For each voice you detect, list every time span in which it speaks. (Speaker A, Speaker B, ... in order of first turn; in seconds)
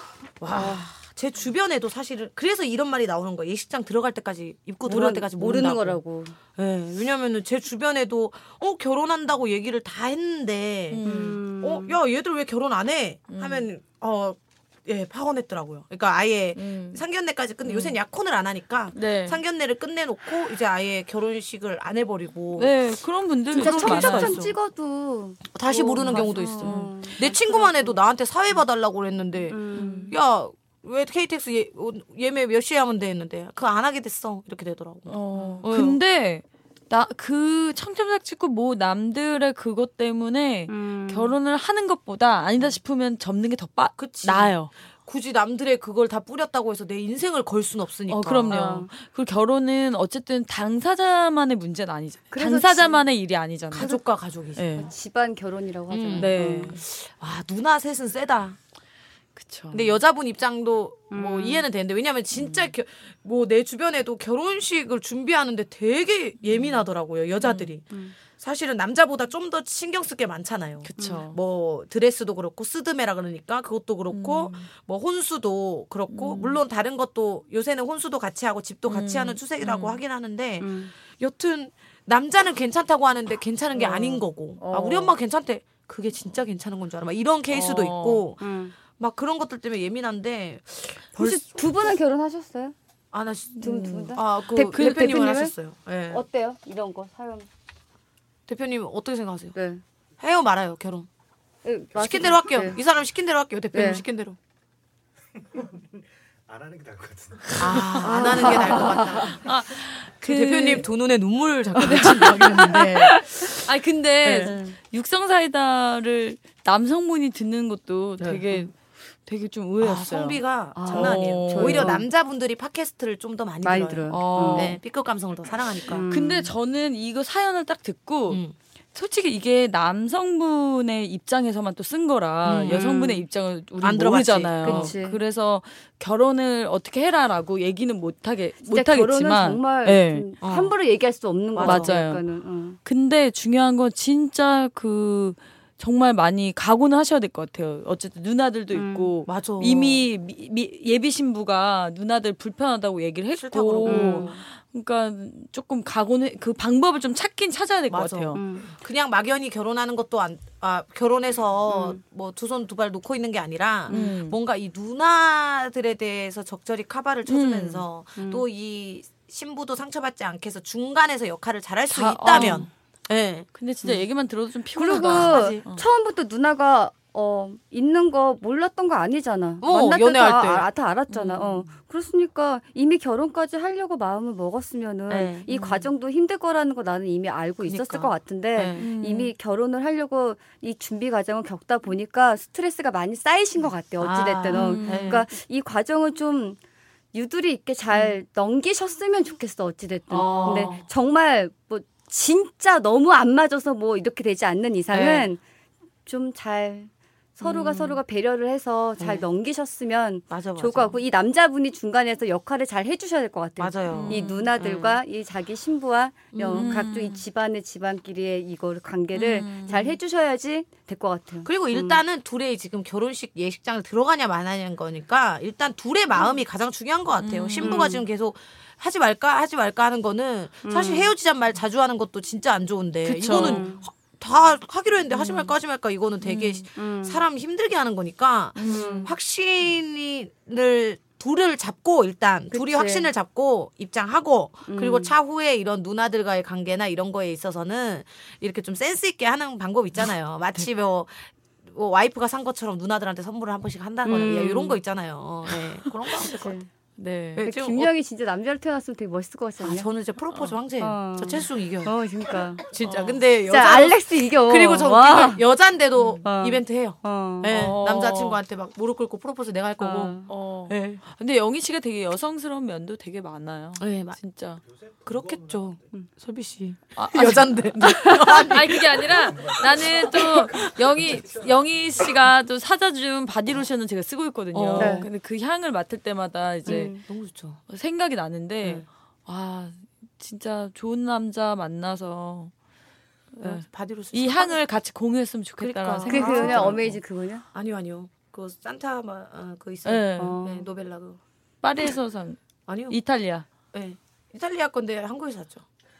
Speaker A: 0.4-6.0, 6.5-11.1, 11.6-22.7, 23.5-24.5, 25.5-36.0, 44.0-48.5, 53.7-54.6, 55.9-58.6, 59.7-67.8, 68.4-88.4, 89.0-91.5, 93.1-96.2, 98.5-99.5, 100.2-101.1, 101.9-104.3, 107.6-109.4, 110.2-113.6, 114.2-114.5, 118.2-118.4, 119.8-126.1, 132.4-132.9, 133.8-134.9, 140.4-140.7, 141.5-141.9, 149.3-150.0, 153.3-154.3, 157.9-173.5, 174.9-175.7, 179.6-180.7, 185.1-185.5, 187.7-188.8, 194.0-195.2, 200.1-200.8, 204.9-205.3, 207.4-208.0, 210.3-211.0, 213.6-215.0, 216.3-216.8, 221.4-256.5, 257.3-257.9, 259.6-261.9, 262.7-271.0, 273.8-274.2, 275.0-279.0, 284.5-285.1, 286.6-287.6, 293.4-294.6, 295.6-296.9, 297.5-301.2, 302.7-303.0, 303.7-305.6
Speaker B: 0.5-0.8, 4.8-6.3, 11.0-12.0, 23.5-28.0, 29.5-30.1, 35.4-35.7, 40.7-41.4, 48.5-48.9, 52.3-53.0, 54.7-56.8, 61.1-61.6, 71.0-71.3, 80.6-80.9, 83.7-85.2, 88.4-88.7, 91.2-92.8, 93.6-95.5, 96.1-97.5, 99.5-99.8, 101.6-102.8, 103.7-104.0, 107.8-109.4, 111.8-113.6, 114.3-114.7, 120.8-122.1, 123.6-124.8, 125.9-126.5, 132.6-133.2, 134.6-135.2, 138.7-142.8, 148.7-149.1, 153.8-154.4, 158.3-158.7, 161.7-162.0, 163.9-164.2, 168.2-168.4, 172.2-172.7, 174.7-196.6, 197.1-205.4, 206.1-222.0, 227.6-228.0, 230.6-231.1, 233.3-233.8, 235.2-235.5, 236.7-237.2, 238.6-239.1, 242.5-243.1, 244.7-245.1, 254.0-254.8, 256.2-256.7, 257.4-259.9, 260.8-262.6, 263.5-265.4, 266.2-267.6, 269.8-270.3, 277.8-278.5, 284.8-285.1, 286.6-287.0, 296.1-297.4, 300.2-300.7
Speaker C: 10.9-11.4, 13.3-13.7, 16.5-17.0, 17.6-17.9, 18.9-19.4, 22.6-24.4, 26.0-27.1, 29.7-30.1, 35.1-44.7, 48.1-54.0, 54.5-54.9, 56.1-56.8, 59.4-60.0, 62.4-62.7, 67.4-67.7, 70.8-71.4, 74.1-74.7, 76.1-76.6, 78.9-80.0, 87.5-88.2, 93.6-94.2, 94.7-95.3, 109.4-110.9, 113.6-121.9, 124.1-124.8, 126.1-128.4, 128.9-140.2, 141.6-142.2, 142.8-158.4, 163.9-164.4, 167.2-167.8, 171.9-172.7, 173.6-175.8, 181.1-181.7, 185.5-185.9, 188.8-189.3, 194.5-195.2, 200.1-200.8, 213.9-214.5, 216.5-217.2, 219.1-220.0, 227.2-228.0, 233.0-233.6, 236.3-236.6, 238.6-239.1, 257.0-257.4, 262.8-263.2, 266.0-266.2, 267.4-268.4, 270.3-274.6, 276.9-286.9, 287.7-292.5, 293.4-296.9, 299.8-300.4, 301.6-303.4
Speaker D: 105.5-107.8, 274.7-275.7, 279.0-281.7